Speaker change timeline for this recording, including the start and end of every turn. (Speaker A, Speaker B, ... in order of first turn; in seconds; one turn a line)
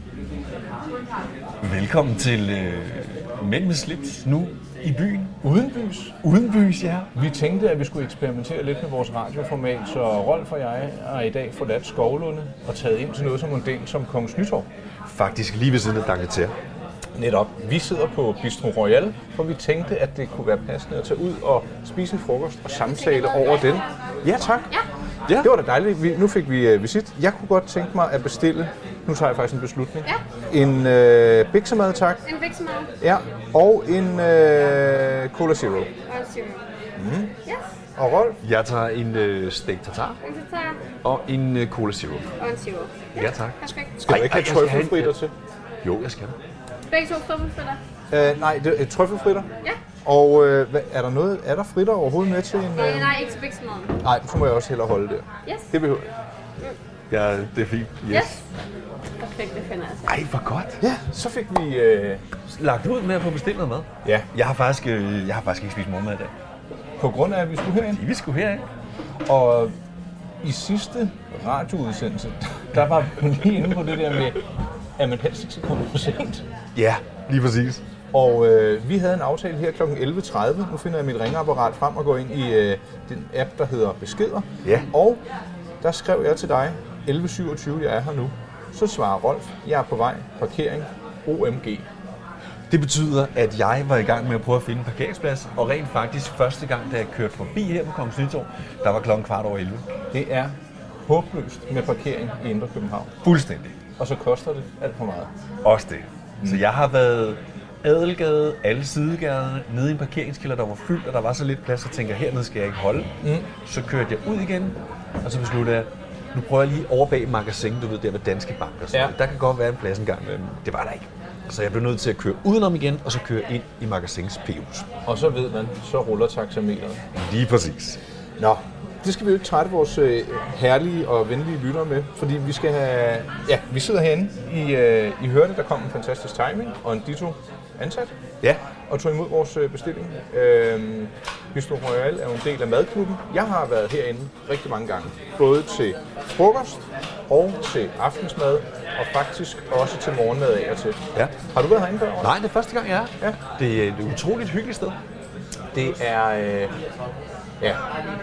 Speaker A: 1.6-5.4
Speaker B: 5.4-6.2
Speaker A: 6.2-7.1
Speaker B: 7.1-14.7
Speaker A: 15.1-16.5
Speaker B: 17.1-24.7
Speaker C: 22.9-23.9
Speaker B: 25.4-32.2
Speaker C: 32.2-32.9
Speaker B: 33.0-35.9
Speaker C: 36.1-36.6
Speaker B: 37.0-37.3
Speaker B: 38.0-38.4
Speaker A: 38.4-40.2
Speaker C: 40.2-40.8
Speaker A: 41.0-42.3
Speaker C: 42.4-43.9
Speaker A: 43.1-45.2
Speaker B: 44.0-45.3
Speaker A: 45.8-46.4
Speaker C: 46.9-47.8
Speaker B: 48.1-49.5
Speaker B: 50.0-53.1
Speaker C: 52.8-53.9
Speaker B: 54.0-56.1
Speaker A: 57.1-58.4
Speaker C: 58.1-58.4
Speaker C: 59.2-60.2
Speaker A: 60.1-60.8
Speaker B: 60.8-62.2
Speaker A: 62.5-66.3
Speaker B: 67.0-68.0
Speaker A: 67.8-68.7
Speaker B: 69.2-69.7
Speaker B: 70.4-74.4
Speaker B: 75.0-76.4
Speaker A: 76.7-77.8
Speaker B: 78.1-85.2
Speaker A: 84.6-84.9
Speaker B: 85.8-91.8
Speaker A: 92.7-99.8
Speaker B: 100.1-100.5
Speaker B: 101.0-103.1
Speaker A: 103.2-103.7
Speaker B: 104.0-105.3
Speaker A: 105.6-113.1
Speaker B: 113.2-113.5
Speaker A: 113.6-124.9
Speaker B: 125.0-127.0
Speaker A: 127.1-128.6
Speaker B: 129.0-138.1
Speaker B: 138.9-152.3
Speaker A: 152.2-155.0
Speaker B: 155.7-156.7